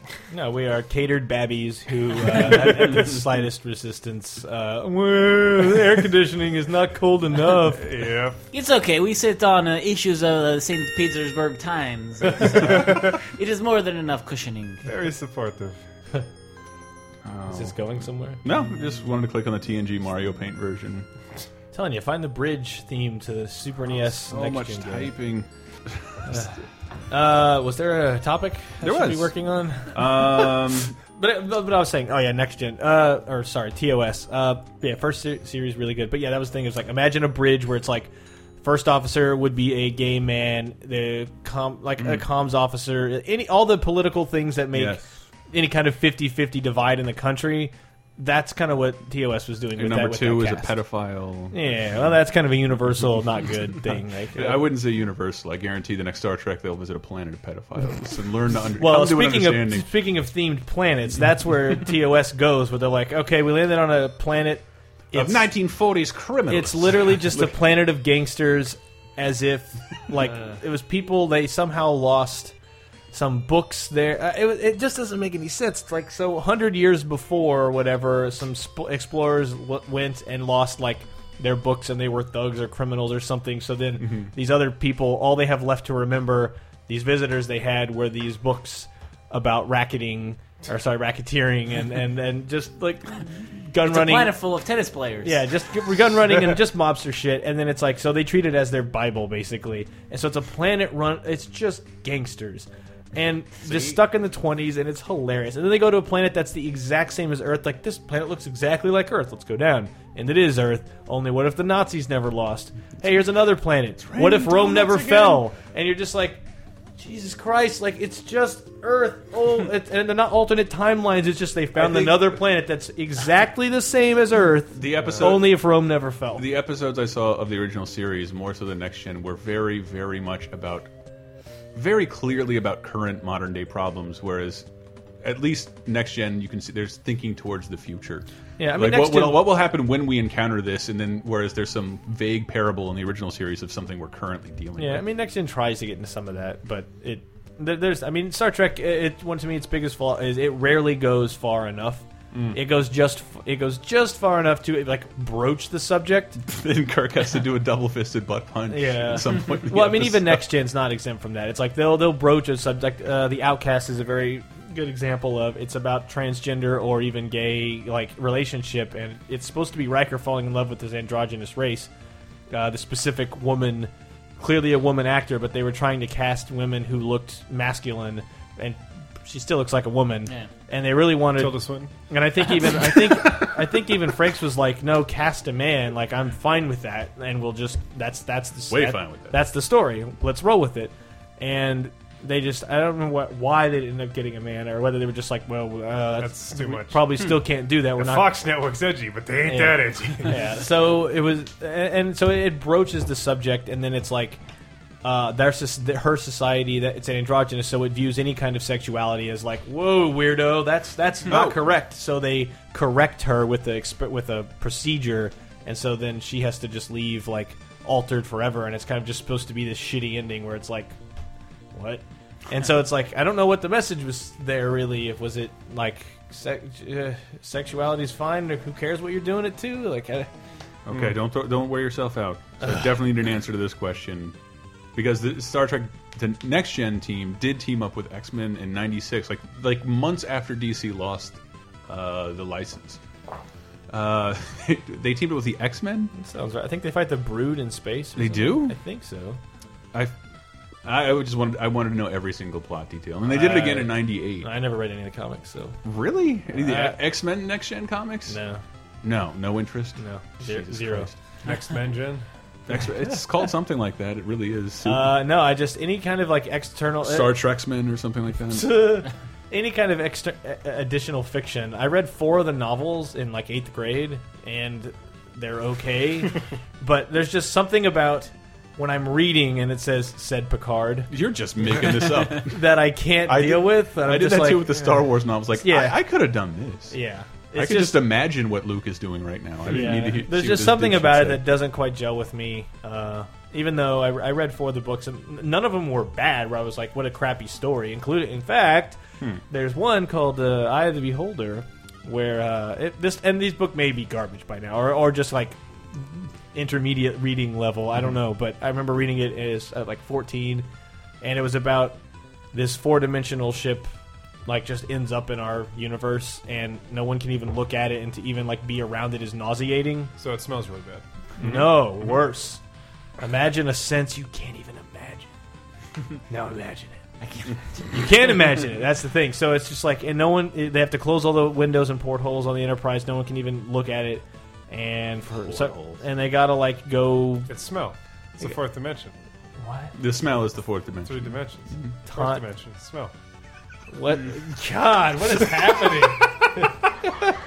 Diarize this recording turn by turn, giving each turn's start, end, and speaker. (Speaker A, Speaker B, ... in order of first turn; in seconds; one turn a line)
Speaker A: 0.3-7.8
Speaker B: 2.5-2.9
Speaker C: 7.7-8.4
Speaker D: 8.5-14.9
Speaker C: 12.6-13.2
Speaker C: 14.9-15.8
Speaker B: 17.2-17.8
Speaker A: 17.5-18.4
Speaker B: 18.4-21.1
Speaker A: 21.7-25.1
Speaker B: 24.2-26.5
Speaker A: 26.3-26.5
Speaker A: 27.1-38.1
Speaker B: 28.8-29.4
Speaker B: 29.9-31.0
Speaker A: 38.6-50.8
Speaker B: 42.0-42.2
Speaker B: 44.7-45.1
Speaker B: 49.8-52.2
Speaker A: 51.5-54.6
Speaker B: 54.4-59.9
Speaker A: 58.8-65.5
Speaker B: 65.1-67.6
Speaker A: 66.5-72.5
Speaker A: 73.1-94.3
Speaker B: 84.0-84.3
Speaker D: 93.8-95.5
Speaker A: 95.2-116.4
Speaker B: 114.0-115.5
Speaker A: 117.0-126.5
Speaker B: 121.8-122.4
Speaker B: 124.7-125.6
Speaker B: 126.3-130.9
Speaker B: 131.8-134.7
Speaker B: 135.2-145.1
Speaker A: 138.6-139.5
Speaker A: 144.8-156.4
Speaker B: 152.3-152.6
Speaker B: 156.4-160.5
Speaker A: 158.7-171.9
Speaker A: 172.5-198.3
Speaker C: 181.3-181.9
Speaker B: 182.9-183.4
Speaker B: 188.7-189.4
Speaker C: 196.2-197.1
Speaker C: 198.0-200.4
Speaker A: 199.5-204.4
Speaker A: 205.0-221.0
Speaker B: 211.3-211.7
Speaker A: 221.7-230.3
Speaker B: 230.9-234.4
Speaker B: 234.9-243.0
Speaker B: 243.9-246.1
Speaker A: 246.1-249.4
Speaker B: 248.2-248.8
Speaker B: 250.8-254.5
Speaker A: 253.2-255.8
Speaker B: 255.8-258.4
Speaker A: 256.5-257.0
Speaker A: 258.3-258.6
Speaker B: 259.0-261.1
Speaker A: 260.0-261.1
Speaker C: 261.4-262.2
Speaker B: 262.7-265.1
Speaker A: 264.8-267.4
Speaker B: 267.0-269.1
Speaker A: 268.5-281.1
Speaker B: 281.1-282.6
Speaker A: 281.8-286.0
Speaker B: 283.2-287.0
Speaker A: 286.9-288.1
Speaker B: 287.5-291.5
Speaker A: 289.6-310.6
Speaker A: 311.2-312.0
Speaker A: 312.5-313.9
Speaker A: 314.5-320.1
Speaker C: 320.2-321.0
Speaker B: 321.4-322.1
Speaker A: 321.4-322.6
Speaker A: 323.2-325.3
Speaker A: 326.3-327.0
Speaker D: 327.2-327.9
Speaker A: 327.9-337.5
Speaker B: 335.3-336.1
Speaker C: 337.5-339.1
Speaker A: 339.6-339.9
Speaker B: 339.9-341.9
Speaker C: 341.0-343.1
Speaker A: 342.1-342.4
Speaker A: 343.9-347.1